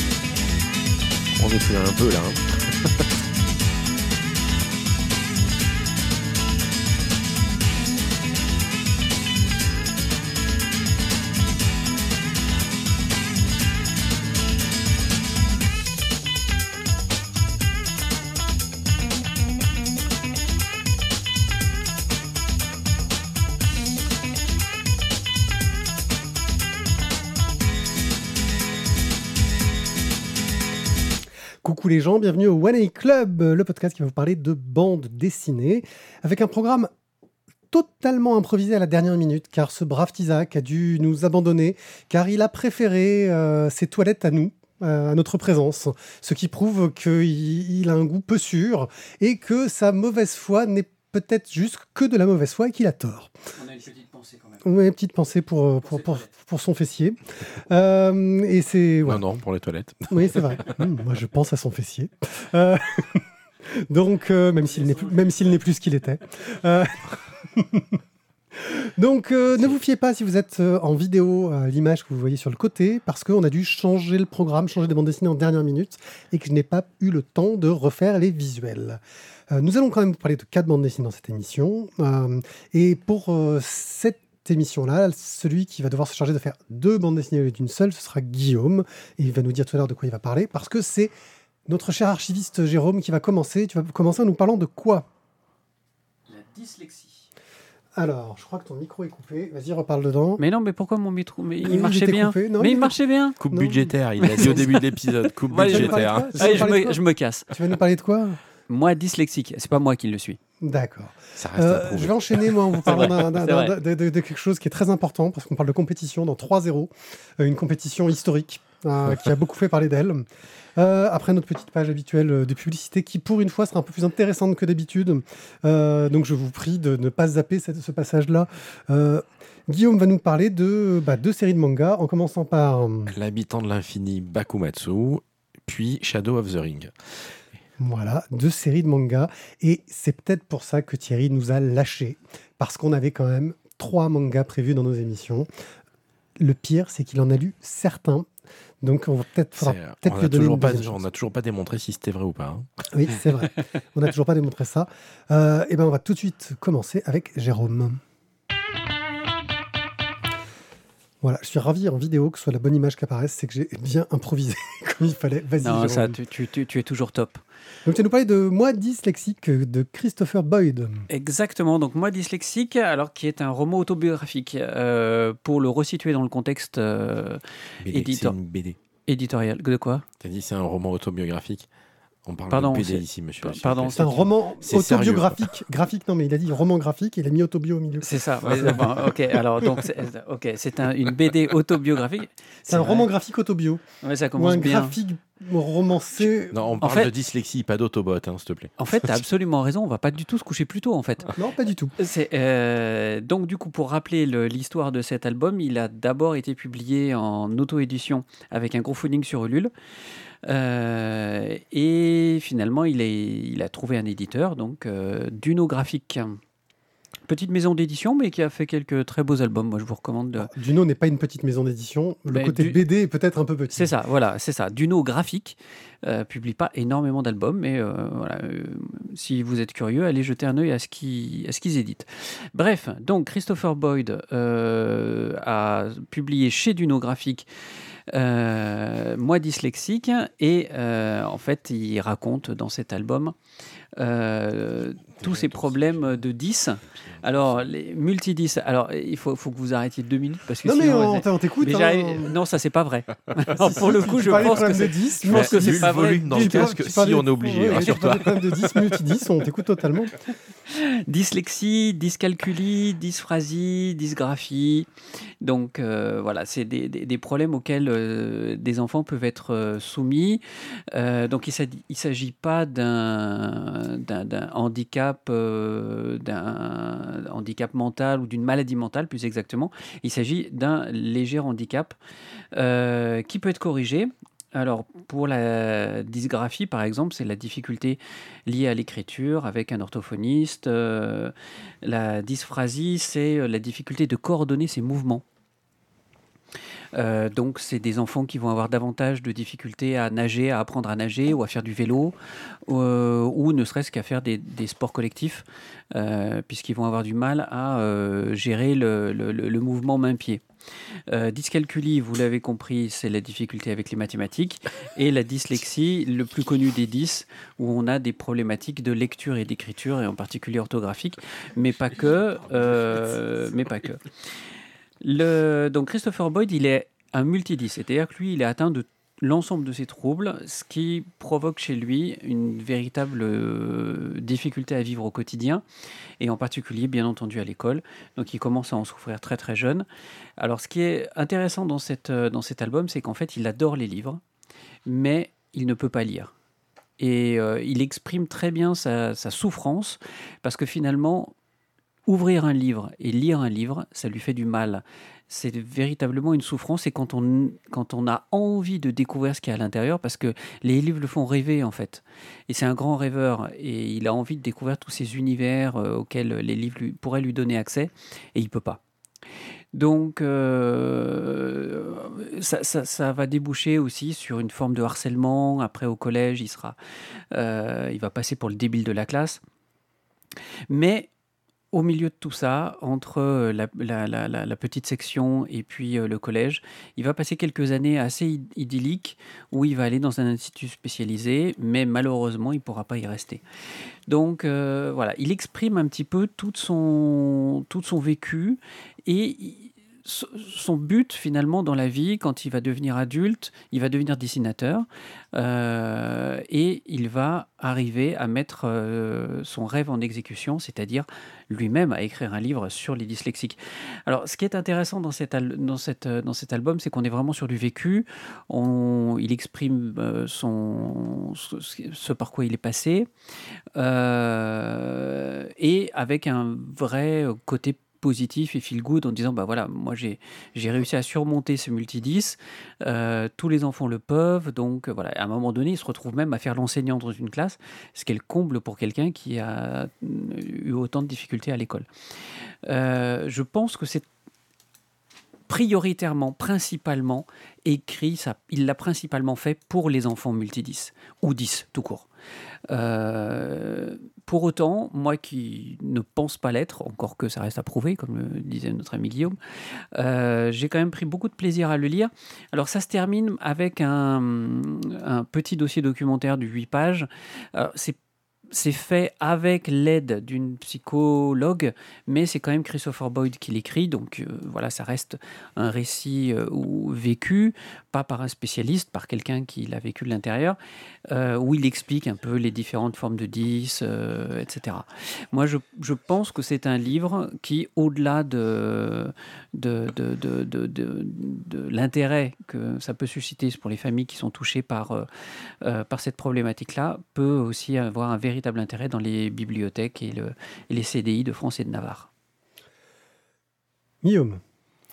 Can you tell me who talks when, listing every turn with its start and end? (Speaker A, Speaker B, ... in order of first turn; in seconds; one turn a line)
Speaker A: 1.4-3.1
Speaker B: 31.6-36.9
Speaker B: 37.7-53.3
Speaker C: 53.6-54.6
Speaker B: 54.6-59.2
Speaker A: 59.0-60.7
Speaker B: 60.1-68.0
Speaker B: 68.5-79.0
Speaker B: 79.5-91.1
Speaker B: 91.7-95.1
Speaker C: 96.3-97.3
Speaker B: 98.0-100.4
Speaker C: 100.4-103.4
Speaker B: 101.6-102.9
Speaker A: 103.4-106.7
Speaker B: 103.5-103.9
Speaker C: 104.2-107.5
Speaker B: 105.7-108.4
Speaker C: 108.7-110.4
Speaker B: 110.6-133.2
Speaker A: 111.4-112.7
Speaker C: 112.9-113.7
Speaker A: 133.1-136.9
Speaker B: 137.8-145.5
Speaker B: 146.4-148.3
Speaker B: 148.8-151.1
Speaker A: 149.6-152.7
Speaker B: 152.9-158.0
Speaker B: 161.2-166.2
Speaker C: 165.6-167.4
Speaker B: 167.8-171.1
Speaker C: 171.1-178.3
Speaker A: 177.8-178.8
Speaker C: 179.1-180.1
Speaker A: 180.2-181.7
Speaker A: 182.3-185.5
Speaker C: 182.5-184.3
Speaker B: 183.9-188.9
Speaker C: 188.0-193.1
Speaker B: 192.7-193.8
Speaker C: 194.0-194.9
Speaker B: 194.4-196.8
Speaker A: 196.5-199.2
Speaker C: 196.8-197.1
Speaker C: 198.8-201.4
Speaker B: 201.3-201.9
Speaker C: 202.0-209.7
Speaker C: 210.4-216.4
Speaker C: 217.3-220.5
Speaker B: 220.4-223.9
Speaker C: 222.3-222.8
Speaker C: 223.7-237.5
Speaker C: 238.1-243.3
Speaker C: 244.0-256.8
Speaker A: 245.2-246.2
Speaker A: 246.9-247.7
Speaker B: 250.6-252.4
Speaker B: 253.5-260.2
Speaker A: 255.3-259.0
Speaker C: 260.7-264.9
Speaker C: 265.4-281.9
Speaker C: 282.5-295.2
Speaker C: 296.9-302.1
Speaker C: 302.7-310.4
Speaker C: 311.1-324.2
Speaker C: 325.0-335.6
Speaker C: 336.2-339.9
Speaker C: 340.4-344.2
Speaker C: 344.9-346.3
Speaker C: 347.0-351.3
Speaker C: 352.1-368.8
Speaker C: 369.7-376.8
Speaker C: 377.3-379.4
Speaker C: 380.7-381.1
Speaker C: 381.7-393.4
Speaker C: 394.1-423.1
Speaker C: 423.8-441.9
Speaker C: 442.6-444.1
Speaker C: 445.5-452.1
Speaker C: 452.7-459.4
Speaker C: 459.9-468.0
Speaker C: 468.5-480.6
Speaker C: 481.1-495.1
Speaker C: 495.6-502.1
Speaker B: 504.0-504.4